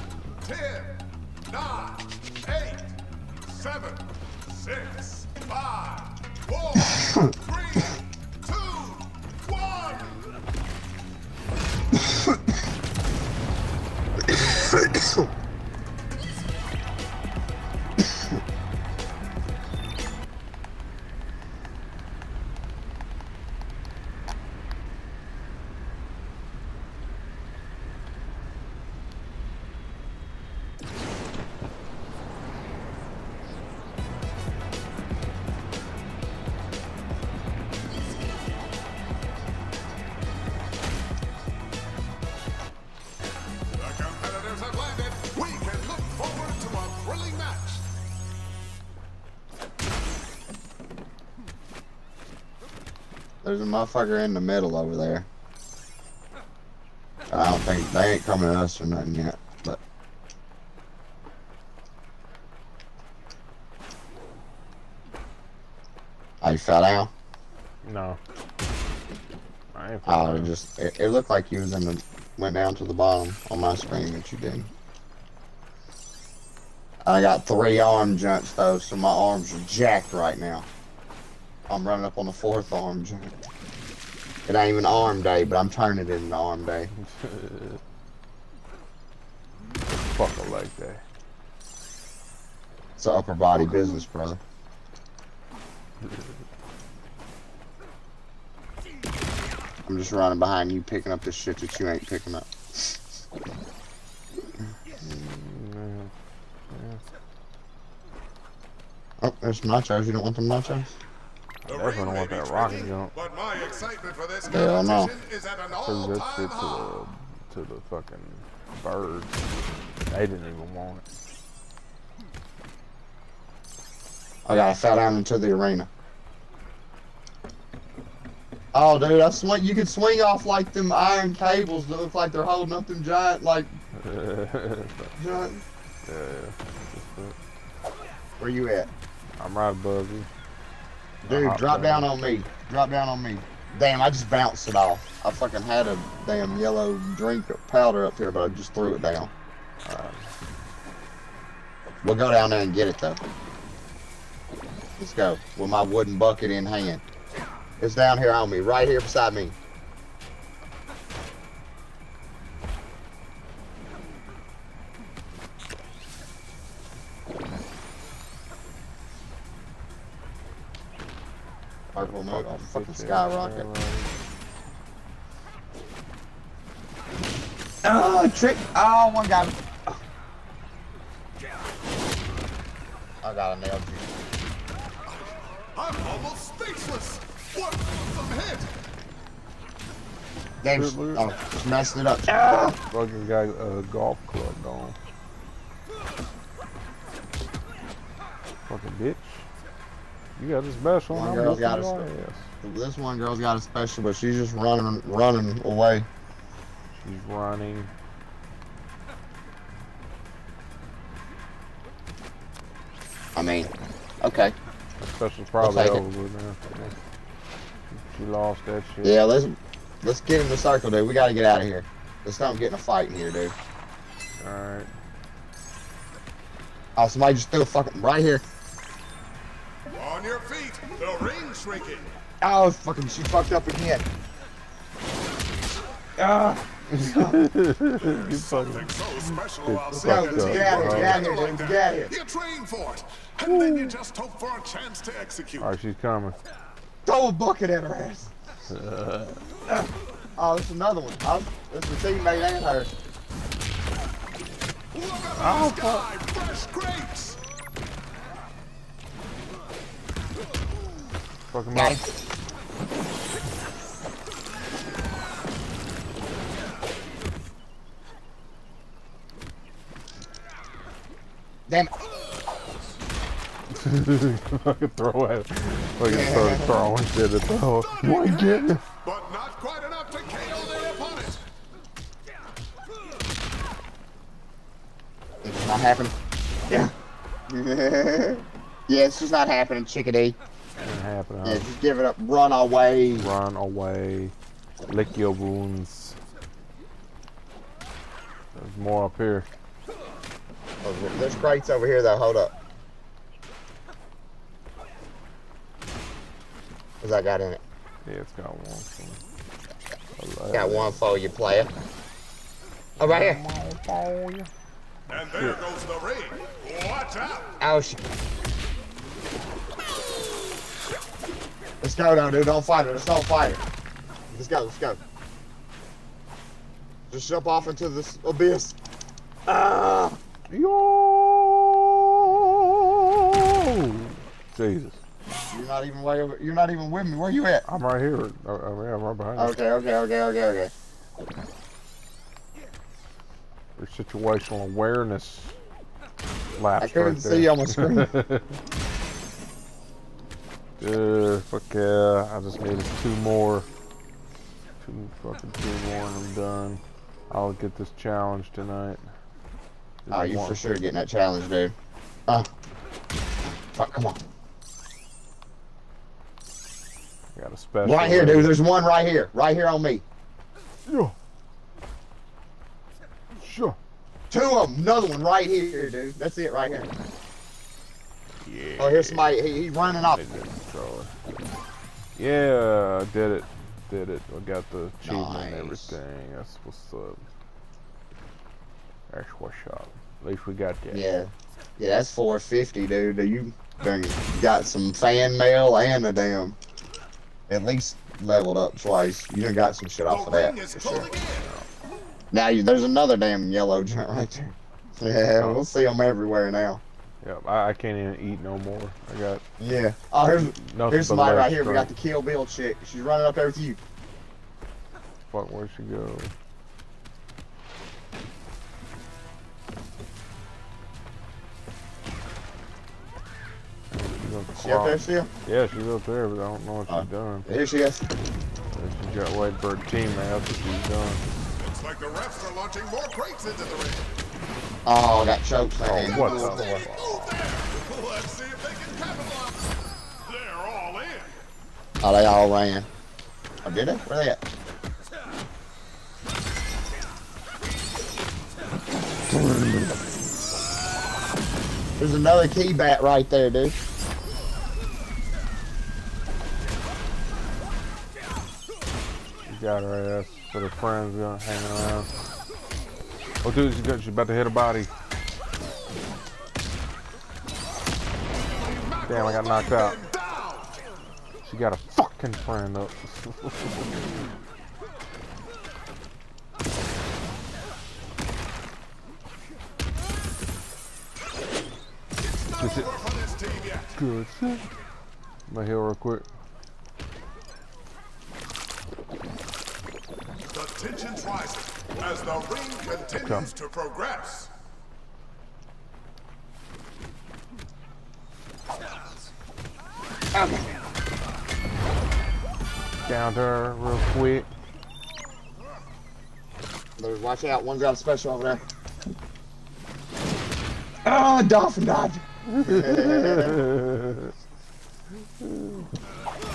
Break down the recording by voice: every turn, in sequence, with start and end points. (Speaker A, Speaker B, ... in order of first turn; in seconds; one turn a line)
Speaker A: 0.4-10.3
Speaker B: 14.3-15.3
Speaker A: 43.7-47.9
Speaker B: 53.4-55.3
Speaker B: 57.3-59.8
Speaker B: 66.4-67.1
Speaker C: 67.8-68.2
Speaker C: 69.7-70.5
Speaker B: 70.0-74.7
Speaker B: 77.0-80.7
Speaker B: 81.7-83.3
Speaker B: 84.5-86.9
Speaker C: 86.9-87.8
Speaker C: 90.0-91.0
Speaker B: 93.0-94.4
Speaker C: 93.5-94.0
Speaker B: 99.8-103.0
Speaker C: 105.0-106.1
Speaker C: 106.7-107.0
Speaker B: 109.2-110.9
Speaker C: 111.6-113.1
Speaker A: 111.7-117.0
Speaker B: 114.5-115.1
Speaker C: 115.8-119.4
Speaker C: 120.1-121.0
Speaker B: 124.4-125.9
Speaker B: 128.7-133.7
Speaker C: 134.0-135.2
Speaker B: 135.2-135.6
Speaker C: 136.0-137.3
Speaker B: 138.4-138.9
Speaker C: 139.4-140.3
Speaker B: 141.2-149.3
Speaker C: 141.2-142.5
Speaker C: 149.8-150.3
Speaker B: 152.0-153.2
Speaker B: 155.0-157.0
Speaker B: 157.8-159.6
Speaker B: 171.9-173.7
Speaker C: 171.9-174.2
Speaker B: 177.8-180.0
Speaker B: 183.2-184.1
Speaker A: 185.1-188.7
Speaker B: 190.6-192.8
Speaker C: 190.7-191.3
Speaker C: 192.3-194.9
Speaker C: 198.7-199.5
Speaker C: 200.4-202.5
Speaker B: 201.1-202.1
Speaker B: 202.6-206.1
Speaker C: 206.9-207.9
Speaker B: 213.3-214.5
Speaker C: 215.0-216.9
Speaker B: 215.6-216.0
Speaker C: 217.9-219.2
Speaker B: 219.0-223.5
Speaker C: 224.4-224.9
Speaker B: 226.9-228.4
Speaker A: 229.9-232.1
Speaker B: 232.4-234.1
Speaker B: 236.2-237.4
Speaker C: 236.9-241.3
Speaker A: 237.9-245.7
Speaker B: 239.9-242.1
Speaker C: 243.4-243.9
Speaker C: 245.6-246.3
Speaker B: 247.0-248.3
Speaker C: 248.7-249.4
Speaker B: 250.4-252.9
Speaker A: 254.9-257.4
Speaker C: 255.4-256.1
Speaker C: 261.5-262.0
Speaker B: 261.7-262.1
Speaker C: 273.7-278.8
Speaker B: 276.0-276.8
Speaker A: 278.0-281.4
Speaker B: 285.4-286.1
Speaker B: 287.5-290.4
Speaker C: 290.8-291.7
Speaker B: 291.4-293.3
Speaker C: 293.2-294.3
Speaker C: 294.9-296.2
Speaker C: 298.5-299.5
Speaker B: 300.8-302.5
Speaker B: 307.0-307.6
Speaker C: 308.0-309.2
Speaker C: 310.2-311.0
Speaker B: 310.5-311.7
Speaker C: 313.0-314.5
Speaker B: 313.0-313.4
Speaker A: 315.1-317.6
Speaker C: 315.1-315.6
Speaker B: 317.6-318.0
Speaker B: 321.8-323.6
Speaker B: 324.3-325.0
Speaker B: 327.1-328.8
Speaker B: 329.5-330.2
Speaker C: 330.5-335.0
Speaker B: 335.5-337.6
Speaker C: 337.6-339.6
Speaker B: 339.4-340.7
Speaker C: 343.8-345.6
Speaker C: 346.6-348.6
Speaker B: 346.8-348.1
Speaker C: 350.8-353.7
Speaker C: 354.8-359.1
Speaker C: 360.1-360.6
Speaker B: 360.1-361.7
Speaker B: 363.7-364.2
Speaker C: 367.4-368.6
Speaker B: 367.8-370.0
Speaker C: 370.9-371.1
Speaker C: 373.4-373.8
Speaker B: 374.3-376.9
Speaker C: 378.4-379.3
Speaker B: 378.8-380.2
Speaker C: 380.0-381.1
Speaker C: 382.1-387.2
Speaker B: 385.0-386.0
Speaker C: 389.1-391.1
Speaker B: 390.9-396.6
Speaker B: 397.5-401.1
Speaker A: 400.1-401.5
Speaker C: 401.3-401.7
Speaker B: 402.3-406.8
Speaker C: 405.4-405.6
Speaker C: 407.2-409.4
Speaker B: 409.6-413.8
Speaker C: 410.6-411.9
Speaker C: 415.3-416.3
Speaker C: 423.9-427.5
Speaker B: 424.5-425.3
Speaker B: 426.9-428.1
Speaker C: 428.7-431.2
Speaker A: 431.6-434.1
Speaker B: 434.8-436.9
Speaker C: 435.8-437.3
Speaker A: 436.1-439.7
Speaker A: 440.2-441.4
Speaker B: 442.0-442.9
Speaker B: 443.6-444.4
Speaker B: 449.3-449.9
Speaker B: 452.0-453.8
Speaker C: 459.4-462.1
Speaker C: 463.4-464.9
Speaker A: 468.5-470.8
Speaker C: 469.1-470.0
Speaker C: 471.4-474.1
Speaker A: 482.2-484.0
Speaker C: 482.6-483.0
Speaker C: 483.9-484.6
Speaker C: 485.5-486.3
Speaker A: 490.5-494.5
Speaker C: 493.1-493.5
Speaker B: 500.3-500.7
Speaker C: 503.0-504.5
Speaker B: 507.0-508.6
Speaker B: 511.0-513.7
Speaker C: 512.5-514.3
Speaker C: 515.4-515.9